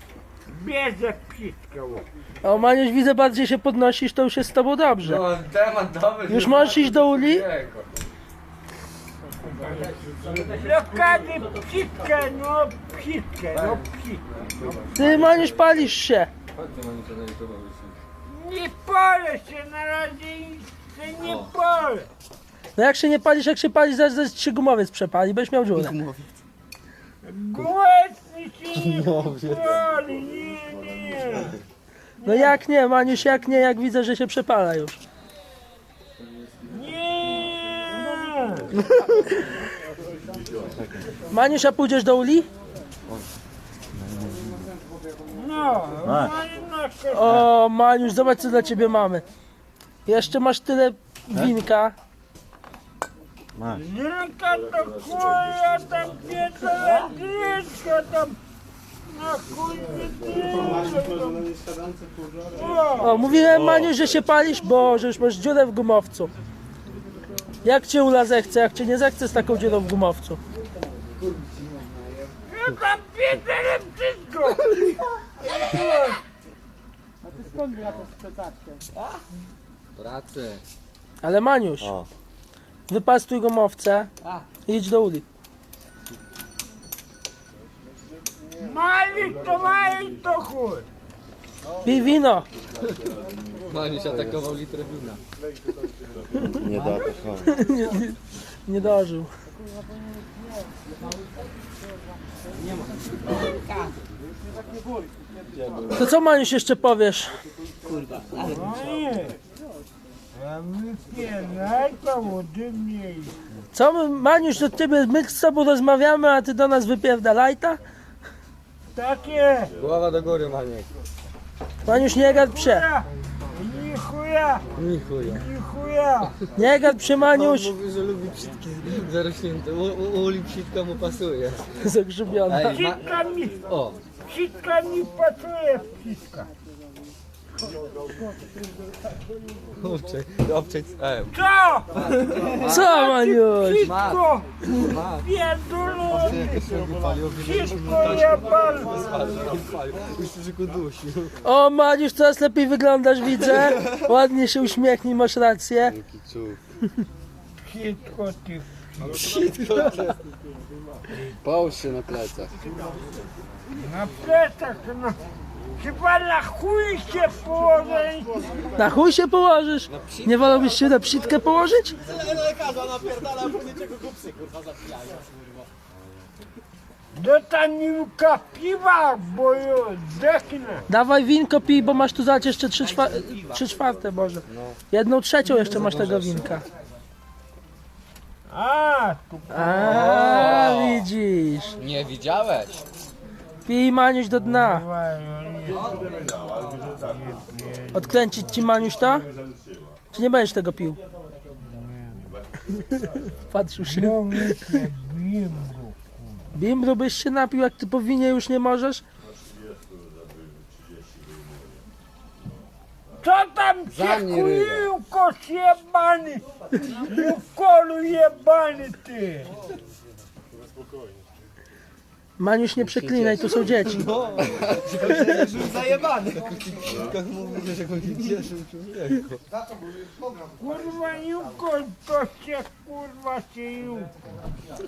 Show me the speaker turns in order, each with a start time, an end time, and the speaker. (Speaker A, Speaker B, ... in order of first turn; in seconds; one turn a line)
Speaker A: 0.5-2.1
Speaker B: 2.4-5.3
Speaker C: 5.0-7.9
Speaker B: 6.2-7.5
Speaker A: 10.3-14.2
Speaker C: 13.5-13.8
Speaker C: 14.4-15.7
Speaker B: 15.0-16.3
Speaker C: 16.5-18.0
Speaker A: 18.2-22.1
Speaker B: 22.7-25.9
Speaker C: 25.7-26.4
Speaker A: 27.2-31.6
Speaker C: 28.8-29.8
Speaker A: 32.2-32.5
Speaker B: 32.2-35.0
Speaker A: 36.6-38.7
Speaker C: 38.9-39.2
Speaker D: 40.8-41.1
Speaker B: 41.3-42.5
Speaker D: 43.9-44.7
Speaker A: 45.3-47.4
Speaker D: 46.0-46.3
Speaker B: 47.1-49.2
Speaker B: 50.0-52.0
Speaker D: 53.5-53.8
Speaker A: 53.7-58.4
Speaker A: 59.1-61.5
Speaker A: 62.5-63.2
Speaker B: 63.0-66.3
Speaker C: 63.5-63.8
Speaker B: 67.6-70.4
Speaker A: 72.5-74.8
Speaker A: 75.4-76.2
Speaker C: 79.9-80.6
Speaker B: 81.2-81.9
Speaker D: 81.8-82.1
Speaker B: 82.9-84.1
Speaker B: 84.6-85.2
Speaker A: 88.5-90.9
Speaker B: 91.8-92.5
Speaker C: 93.7-95.2
Speaker D: 96.4-97.5
Speaker C: 96.7-97.0
Speaker B: 97.4-99.3
Speaker C: 102.6-103.9
Speaker B: 105.9-107.4
Speaker C: 107.8-108.5
Speaker A: 108.5-109.4
Speaker A: 110.3-113.4
Speaker B: 113.7-117.8
Speaker A: 118.9-119.7
Speaker C: 119.8-120.9
Speaker B: 121.8-122.9
Speaker A: 121.9-124.6
Speaker C: 124.8-125.5
Speaker A: 125.2-126.3
Speaker B: 126.6-127.7
Speaker C: 127.2-131.7
Speaker B: 131.8-132.8
Speaker C: 132.5-133.0
Speaker A: 132.6-133.6
Speaker C: 133.7-134.0
Speaker A: 134.2-136.5
Speaker C: 139.8-141.3
Speaker A: 141.3-141.9
Speaker C: 141.9-142.9
Speaker A: 142.5-146.6
Speaker B: 142.7-143.8
Speaker C: 143.8-145.2
Speaker C: 146.1-151.3
Speaker A: 147.4-149.1
Speaker B: 151.4-156.0
Speaker C: 153.5-154.0
Speaker C: 155.9-156.6
Speaker A: 157.6-159.3
Speaker C: 159.0-160.2
Speaker C: 161.4-162.6
Speaker A: 163.8-165.2
Speaker A: 165.8-168.6
Speaker B: 168.8-171.9
Speaker C: 169.9-170.7
Speaker C: 172.0-174.4
Speaker A: 177.1-180.9
Speaker B: 180.9-186.7
Speaker C: 183.2-183.5
Speaker C: 184.5-184.8
Speaker C: 185.6-186.6
Speaker A: 188.5-190.6
Speaker B: 189.5-191.7
Speaker C: 189.8-191.1
Speaker C: 191.8-192.8
Speaker B: 193.7-194.8
Speaker A: 194.4-196.2
Speaker A: 196.9-198.3
Speaker B: 197.9-199.3
Speaker B: 200.1-201.0
Speaker A: 201.6-202.4
Speaker B: 202.9-204.8
Speaker A: 203.8-206.6
Speaker B: 206.5-209.0
Speaker A: 213.2-219.5
Speaker C: 213.9-214.9
Speaker B: 222.4-224.1
Speaker C: 222.9-229.4
Speaker A: 230.6-234.2